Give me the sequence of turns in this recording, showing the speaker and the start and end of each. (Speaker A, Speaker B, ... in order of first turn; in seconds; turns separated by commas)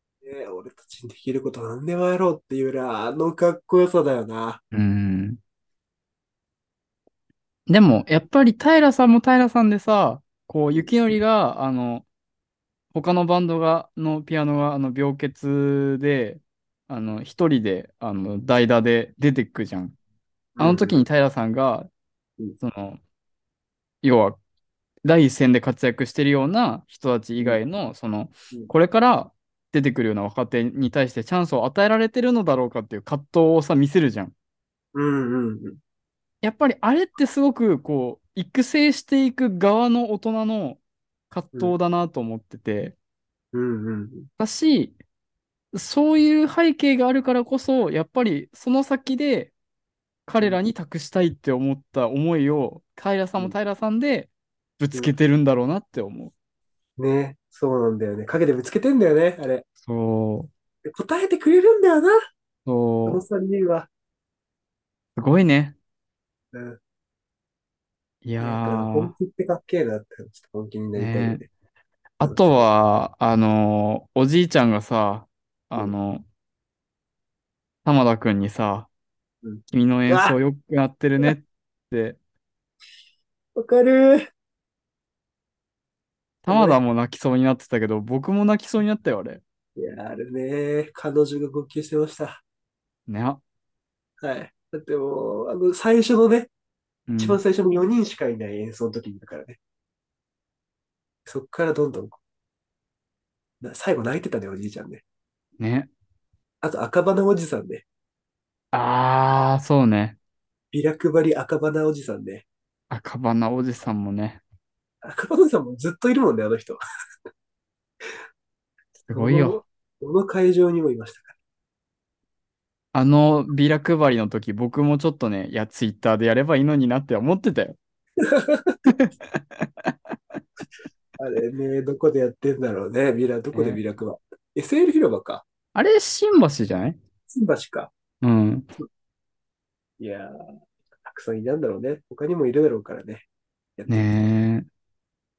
Speaker A: 0.2-4.6, Speaker B: 4.7-5.4, Speaker B: 7.7-12.1, Speaker B: 12.9-20.0, Speaker A: 20.6-21.0, Speaker B: 20.6-21.9, Speaker B: 22.6-23.0, Speaker B: 24.0-24.4, Speaker B: 25.0-34.3, Speaker A: 34.9-35.8, Speaker B: 36.4-40.8, Speaker B: 41.3-43.0, Speaker A: 43.5-44.3, Speaker B: 44.4-45.0, Speaker B: 45.7-49.5, Speaker B: 50.3-56.3, Speaker A: 57.0-59.6, Speaker B: 59.9-60.5, Speaker A: 60.9-62.2, Speaker B: 62.7-63.2, Speaker A: 63.1-63.9, Speaker B: 65.2-65.8, Speaker A: 66.5-66.8, Speaker B: 68.2-69.1, Speaker A: 68.4-71.5, Speaker B: 71.0-71.4, Speaker B: 72.2-76.3, Speaker A: 72.2-72.6, Speaker B: 77.8-78.9, Speaker A: 79.4-80.4, Speaker B: 79.7-82.2, Speaker A: 83.5-84.3, Speaker B: 86.4-89.4, Speaker A: 86.5-86.8, Speaker A: 89.8-92.4, Speaker B: 93.1-93.4, Speaker A: 94.2-96.5, Speaker B: 97.1-97.4, Speaker A: 97.2-99.6, Speaker A: 101.3-102.2, Speaker A: 103.6-105.0, Speaker B: 105.6-105.9, Speaker A: 106.6-107.8, Speaker B: 108.7-110.2, Speaker A: 110.7-112.5, Speaker B: 112.9-114.4, Speaker A: 115.0-116.8, Speaker B: 119.0-119.6, Speaker A: 119.1-121.3, Speaker B: 122.9-127.8, Speaker A: 128.2-128.8, Speaker B: 128.9-129.9, Speaker A: 131.2-135.4, Speaker B: 133.5-133.8, Speaker B: 135.8-137.0, Speaker A: 137.3-137.9, Speaker B: 138.2-138.7, Speaker A: 140.0-140.4, Speaker A: 141.0-143.3, Speaker A: 143.8-144.3, Speaker B: 143.9-144.7